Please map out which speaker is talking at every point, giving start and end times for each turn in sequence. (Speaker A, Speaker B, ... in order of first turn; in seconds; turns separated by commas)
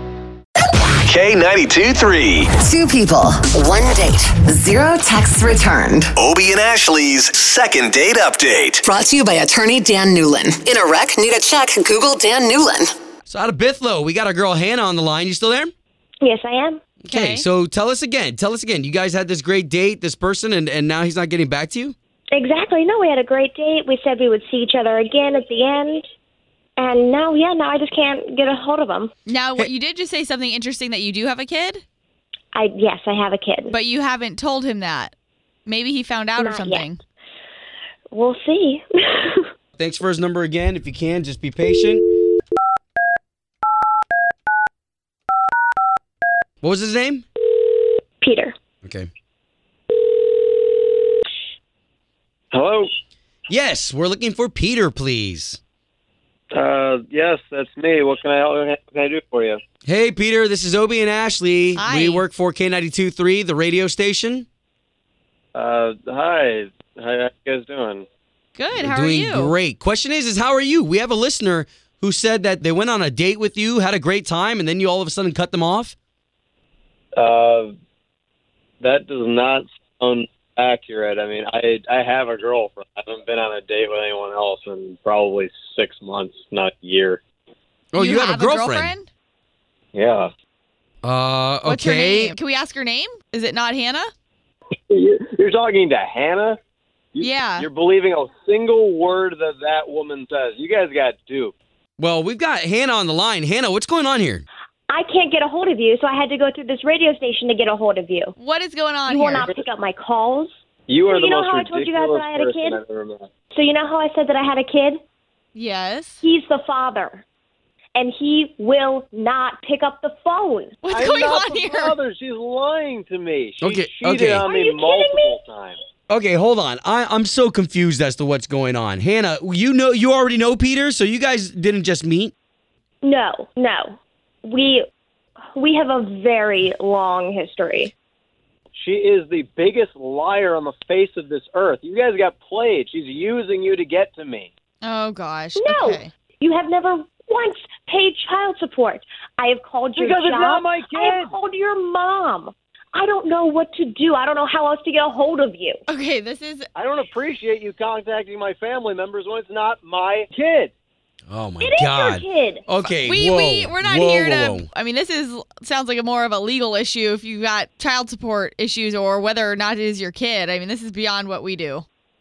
Speaker A: 1.0-2.5, Speaker B: 2.5-6.1, Speaker A: 6.2-8.8, Speaker B: 8.8-12.9, Speaker C: 13.3-15.7, Speaker D: 16.2-16.8, Speaker C: 17.0-21.9, Speaker E: 17.1-17.4, Speaker D: 22.3-26.1, Speaker D: 26.8-29.1, Speaker E: 29.2-31.8, Speaker D: 32.5-33.7, Speaker E: 33.7-35.1, Speaker E: 35.6-37.0, Speaker D: 36.4-36.9, Speaker D: 38.1-39.5, Speaker C: 39.8-42.0, Speaker C: 46.6-47.2, Speaker D: 48.2-48.5, Speaker C: 48.8-49.1, Speaker F: 52.5-52.9, Speaker C: 53.5-55.6, Speaker F: 56.5-59.6, Speaker C: 59.8-64.5, Speaker E: 61.8-62.2, Speaker F: 65.5-68.1, Speaker E: 68.5-69.5, Speaker C: 68.8-75.9, Speaker F: 77.1-77.8, Speaker F: 78.8-87.2, Speaker C: 87.9-88.9, Speaker E: 88.0-89.1, Speaker F: 89.9-90.3, Speaker C: 91.0-92.3, Speaker E: 91.7-94.1, Speaker F: 94.9-96.6, Speaker F: 97.1-101.5, Speaker E: 97.2-97.7, Speaker C: 102.0-104.4, Speaker D: 104.9-108.3, Speaker E: 108.4-109.5, Speaker D: 109.1-110.5, Speaker F: 110.9-113.3, Speaker D: 111.1-112.8, Speaker D: 113.5-115.0, Speaker E: 115.5-116.2, Speaker D: 116.2-117.2, Speaker D: 118.0-120.8, Speaker E: 120.8-122.0, Speaker F: 120.9-125.8, Speaker C: 123.6-124.5, Speaker D: 124.4-125.4, Speaker C: 126.1-132.3, Speaker D: 133.0-133.9, Speaker D: 134.4-134.8, Speaker D: 135.5-137.9, Speaker F: 138.8-144.5, Speaker E: 144.8-146.1, Speaker D: 145.6-155.8, Speaker F: 149.9-151.3, Speaker E: 155.9-156.7, Speaker F: 156.8-160.7, Speaker C: 161.3-164.7, Speaker D: 161.6-162.6, Speaker E: 163.0-171.8